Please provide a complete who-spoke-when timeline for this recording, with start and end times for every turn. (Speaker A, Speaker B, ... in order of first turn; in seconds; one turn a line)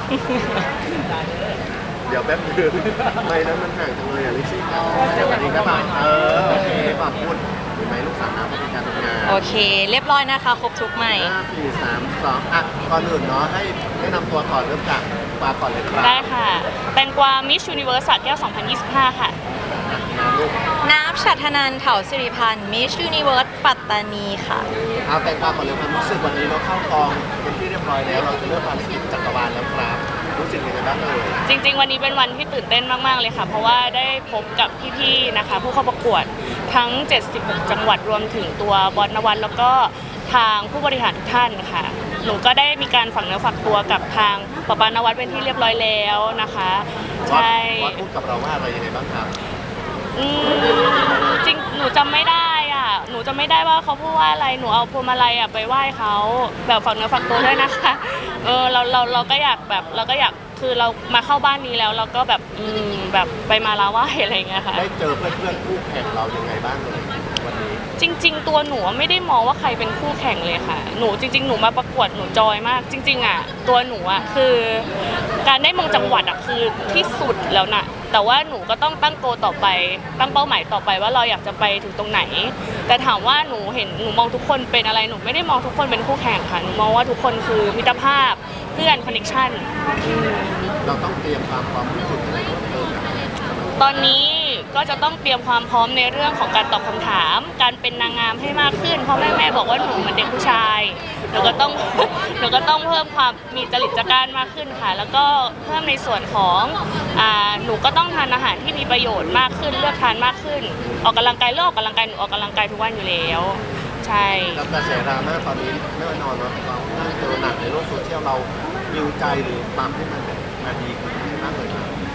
Speaker A: 0.1-0.7
Speaker B: 2.0-9.4
Speaker A: 9.2-11.3
Speaker B: 11.1-16.3
Speaker C: 16.0-19.4
Speaker B: 19.7-20.6
Speaker A: 20.8-24.7
Speaker B: 24.9-31.4
Speaker C: 31.4-48.0
Speaker B: 47.2-49.4
Speaker C: 50.1-64.9
Speaker B: 64.7-67.8
Speaker C: 68.0-74.9
Speaker C: 75.4-90.6
Speaker B: 90.8-94.0
Speaker C: 93.8-114.7
Speaker B: 110.8-111.1
Speaker B: 114.5-122.0